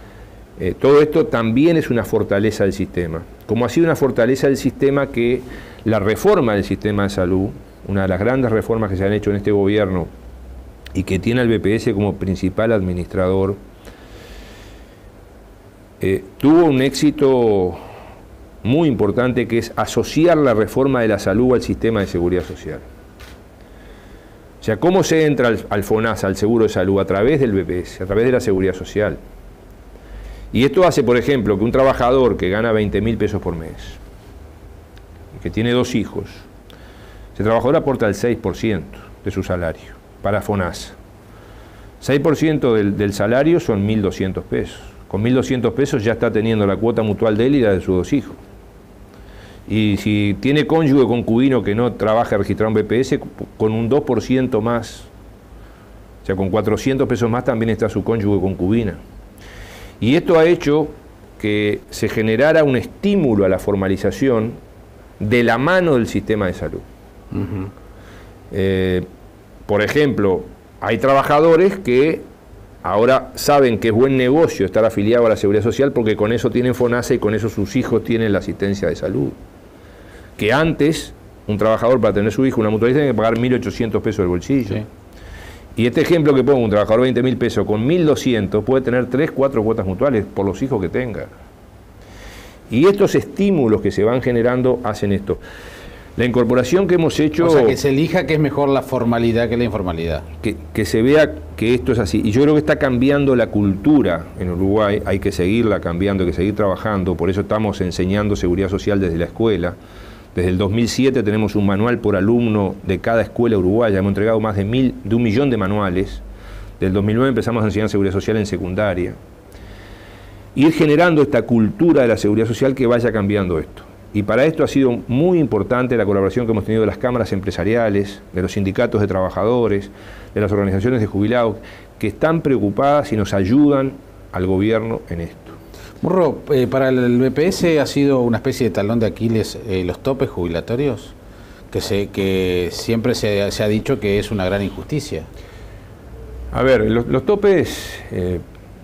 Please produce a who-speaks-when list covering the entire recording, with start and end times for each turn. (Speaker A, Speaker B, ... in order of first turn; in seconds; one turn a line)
Speaker A: 0.6-10.1
Speaker A: 10.9-13.6
Speaker A: 16.0-17.8
Speaker A: 18.6-22.8
Speaker A: 24.6-29.2
Speaker A: 30.5-34.0
Speaker A: 35.3-36.5
Speaker A: 37.3-41.0
Speaker A: 42.0-48.4
Speaker A: 49.7-55.1
Speaker A: 56.2-59.0
Speaker A: 60.0-64.6
Speaker A: 65.2-66.8
Speaker B: 67.3-67.7
Speaker A: 68.5-69.1
Speaker A: 69.7-72.2
Speaker A: 72.8-79.4
Speaker A: 80.4-84.8
Speaker A: 85.8-91.3
Speaker A: 92.7-95.4
Speaker A: 96.2-97.8
Speaker B: 97.4-100.2
Speaker A: 100.4-109.8
Speaker A: 110.3-116.2
Speaker A: 116.8-119.2
Speaker A: 120.5-135.6
Speaker B: 136.0-141.1
Speaker B: 141.7-145.3
Speaker A: 146.5-148.4